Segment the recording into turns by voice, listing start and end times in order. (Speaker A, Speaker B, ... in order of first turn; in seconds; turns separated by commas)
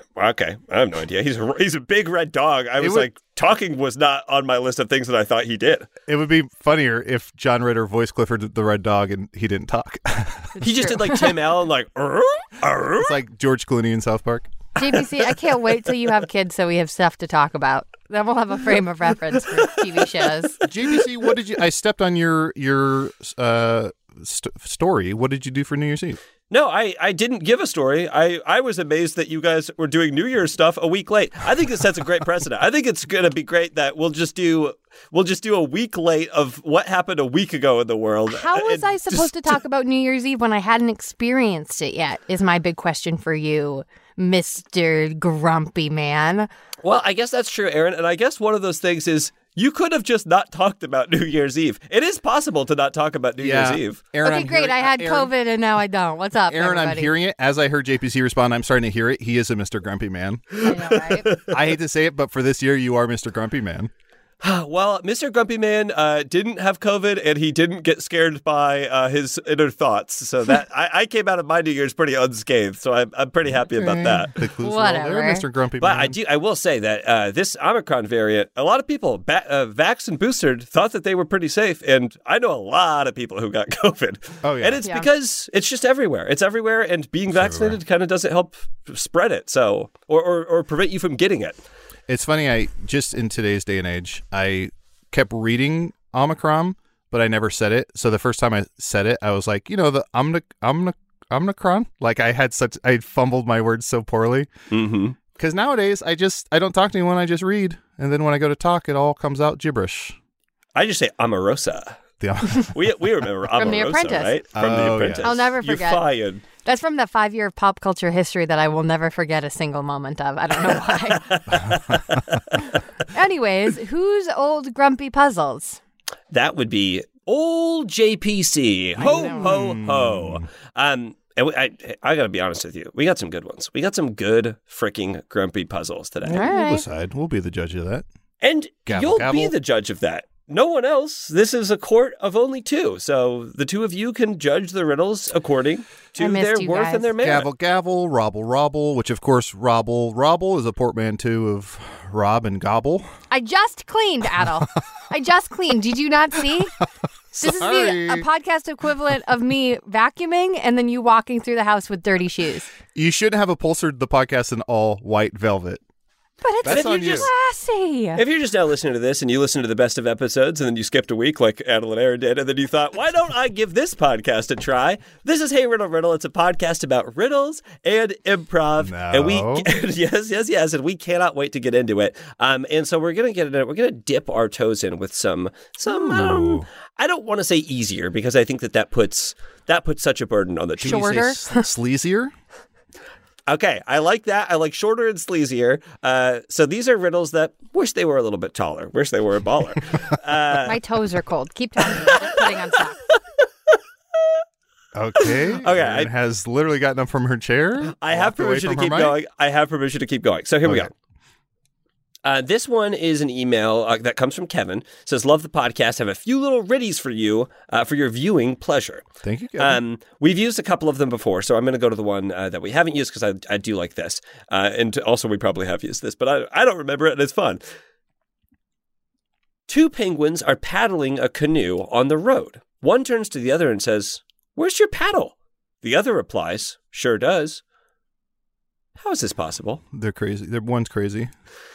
Speaker A: 0.2-5.9, Speaker B: 2.8-3.1, Speaker B: 6.1-10.6, Speaker C: 10.6-11.3, Speaker A: 10.6-13.2, Speaker B: 13.0-14.5, Speaker C: 14.8-20.6, Speaker B: 20.6-26.2, Speaker A: 26.5-39.3, Speaker C: 38.3-46.5, Speaker A: 46.8-54.0, Speaker B: 53.4-55.3, Speaker C: 54.2-57.1, Speaker B: 56.5-60.6, Speaker A: 60.5-61.7, Speaker C: 60.6-61.3, Speaker B: 61.5-63.9, Speaker A: 64.4-74.3, Speaker B: 73.7-76.2, Speaker C: 74.6-75.5, Speaker A: 75.8-91.6, Speaker B: 84.4-84.8, Speaker B: 87.3-87.8, Speaker B: 92.1-104.5, Speaker A: 104.7-105.2, Speaker B: 105.3-110.2, Speaker A: 110.8-112.0, Speaker B: 112.2-112.8, Speaker A: 112.6-116.4, Speaker C: 113.6-114.4, Speaker B: 114.5-115.3, Speaker C: 115.2-116.0, Speaker C: 116.6-121.4, Speaker A: 121.2-122.5, Speaker B: 121.5-122.2, Speaker C: 123.1-125.8, Speaker A: 126.3-136.6, Speaker B: 129.0-130.5, Speaker C: 129.0-129.6, Speaker C: 136.3-136.8, Speaker B: 136.3-138.1, Speaker A: 138.4-147.5, Speaker B: 138.9-139.5, Speaker C: 146.2-147.1, Speaker B: 147.2-153.1, Speaker C: 153.3-156.7, Speaker B: 157.3-158.3, Speaker C: 157.4-162.7, Speaker B: 162.9-165.8, Speaker C: 166.4-168.2, Speaker B: 166.6-167.3, Speaker A: 166.7-167.3, Speaker A: 168.2-191.2, Speaker B: 178.8-179.7, Speaker B: 185.9-186.7, Speaker B: 190.8-192.3, Speaker C: 190.8-191.7, Speaker A: 193.5-200.8, Speaker C: 200.6-203.1, Speaker A: 201.9-202.4, Speaker B: 204.9-209.2, Speaker A: 205.2-206.1, Speaker A: 207.8-210.9, Speaker B: 210.6-210.9, Speaker A: 212.2-219.1, Speaker B: 219.2-219.8, Speaker A: 219.6-227.6, Speaker A: 229.7-237.6, Speaker A: 239.0-239.8, Speaker B: 239.9-241.3